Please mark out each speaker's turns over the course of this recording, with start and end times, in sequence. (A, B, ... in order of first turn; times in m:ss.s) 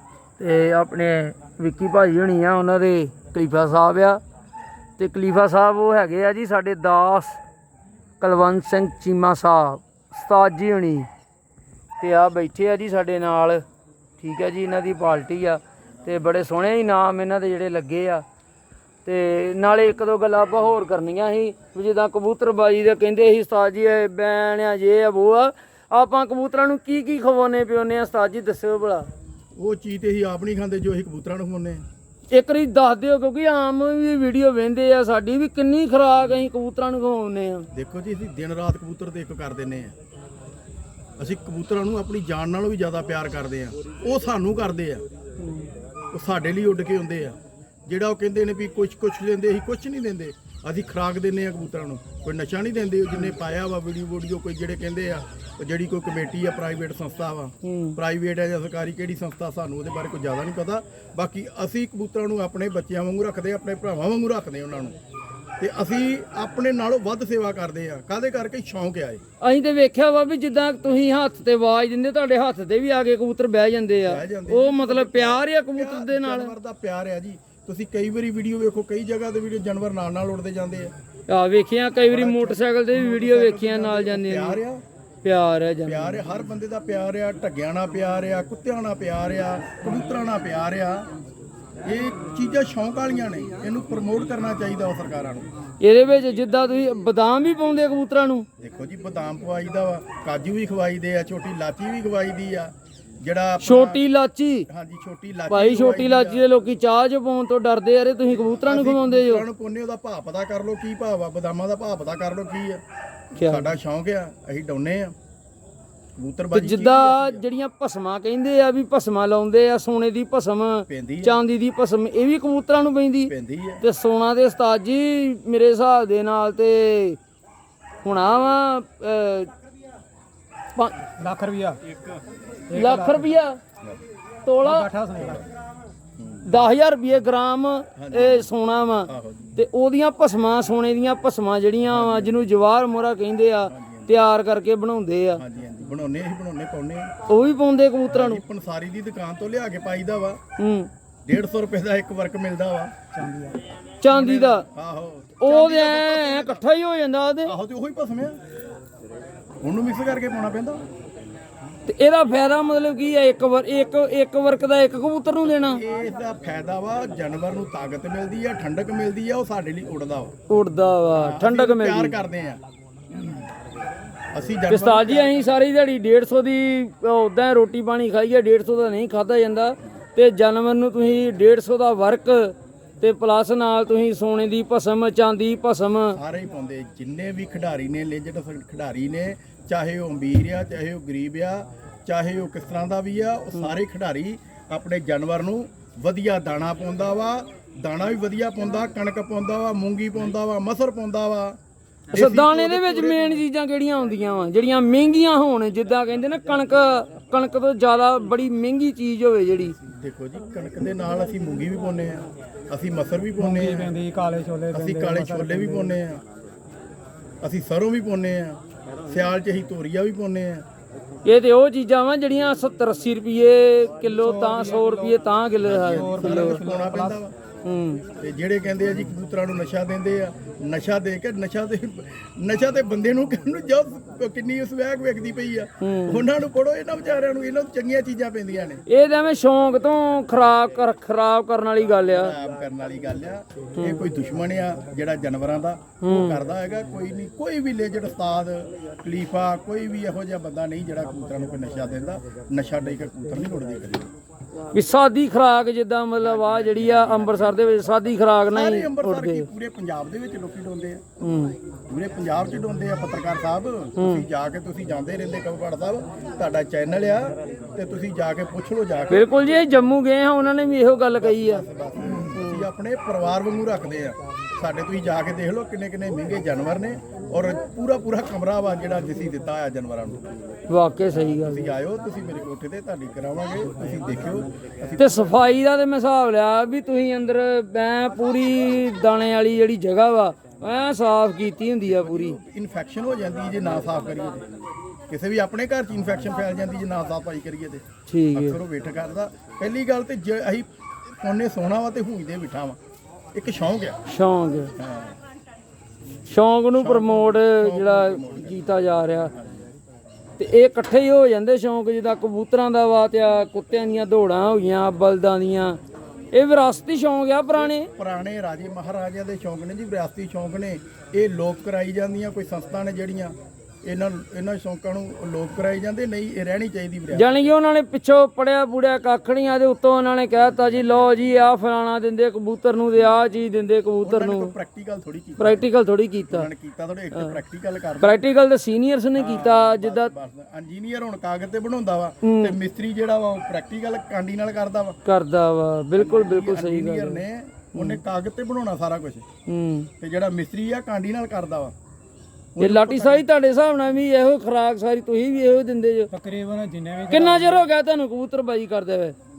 0:00.4-0:04.2 A
0:05.0-0:07.4 A
0:08.2-0:11.1 A
0:12.0-0:13.6 A
0:14.2-0:18.2 A
0:19.0-0:29.1 A
0:29.6-0:31.8 B
0:32.3-0:37.7 A
0:37.7-0:39.9 B
0:41.2-0:45.0 B
0:45.4-0:45.7 A
0:46.1-0:47.4 B
0:47.9-1:05.0 B
0:57.6-0:58.0 A
1:05.6-1:09.2 B
1:09.4-1:16.6 A
1:14.0-1:20.9 B
1:21.3-1:24.6 A
1:22.0-1:24.8 B
1:25.2-1:26.2 A
1:25.8-1:31.1 B
1:31.8-1:35.5 B
1:35.8-1:38.5 A
1:38.6-1:42.7 B
1:43.2-1:44.0 B
1:43.6-1:44.7 A
1:44.7-1:46.4 B
1:45.5-1:49.4 A
1:48.3-1:52.8 B
1:53.4-1:53.7 A
1:53.4-1:55.1 B
1:56.2-1:57.5 B
1:56.5-2:07.2 A
2:00.9-2:01.4 B
2:03.3-2:03.8 B
2:08.0-2:09.5 A
2:11.2-2:11.8 C
2:12.7-2:13.3 C
2:12.7-2:13.6 A
2:14.4-2:14.9 A
2:14.6-2:15.5 C
2:15.2-2:15.4 B
2:16.2-2:16.6 B
2:16.5-2:25.4 A
2:18.0-2:18.5 B
2:19.1-2:19.6 B
2:21.9-2:22.4 B
2:23.7-2:24.2 B
2:25.4-2:27.1 B
2:27.3-2:28.4 A
2:28.1-2:30.4 B
2:30.6-2:30.9 A
2:31.3-2:32.9 B
2:33.2-2:33.6 C
2:34.0-2:34.6 A
2:34.1-2:36.6 B
2:35.4-2:37.5 A
2:37.4-2:38.4 B
2:39.6-2:40.8 B
2:41.9-2:45.8 A
2:45.6-2:50.3 B
2:50.5-2:52.2 A
2:51.2-2:52.6 B
2:53.1-2:53.4 B
2:54.3-2:55.4 B
2:54.7-3:06.2 A
3:06.2-3:21.6 B
3:22.1-3:23.4 B
3:22.1-3:29.8 A
3:29.8-3:33.9 B
3:33.4-3:36.0 C
3:34.7-3:36.2 B
3:37.4-3:40.6 B
3:41.3-3:46.6 A
3:44.0-3:45.2 C
3:45.6-3:47.3 B
3:45.9-3:47.2 C
3:47.6-3:48.0 A
3:48.2-3:58.8 B
3:55.8-3:56.2 A
3:58.9-4:02.3 A
4:02.0-4:14.1 B
4:03.8-4:04.0 A
4:06.0-4:06.4 A
4:14.7-4:19.5 A
4:16.2-4:17.6 B
4:18.5-4:21.0 B
4:21.2-4:21.5 A
4:21.9-4:29.3 B
4:24.0-4:24.2 A
4:29.1-4:31.6 A
4:31.2-4:40.2 B
4:32.3-4:32.7 A
4:40.7-4:41.6 A
4:41.3-4:45.4 B
4:45.0-4:52.4 A
4:51.8-4:54.5 B
4:55.1-5:00.7 B
4:58.1-4:58.6 A
5:01.2-5:02.8 B
5:03.3-5:04.0 B
5:04.1-5:04.7 A
5:04.8-5:05.2 B
5:06.3-5:09.3 A
5:06.7-5:09.6 B
5:10.4-5:15.8 A
5:16.3-5:17.9 A
5:18.0-5:27.3 B
5:27.1-5:34.5 A
5:34.0-5:35.7 B
5:35.4-5:36.5 A
5:36.3-5:38.2 B
5:38.0-5:40.1 A
5:39.2-5:45.0 B
5:42.2-5:42.6 A
5:45.0-5:47.2 A
5:46.0-5:49.2 B
5:47.7-5:48.0 A
5:49.5-5:49.9 A
5:50.0-5:51.7 B
5:52.6-5:53.2 B
5:52.6-5:56.1 A
5:56.1-5:57.7 C
5:57.1-5:59.2 A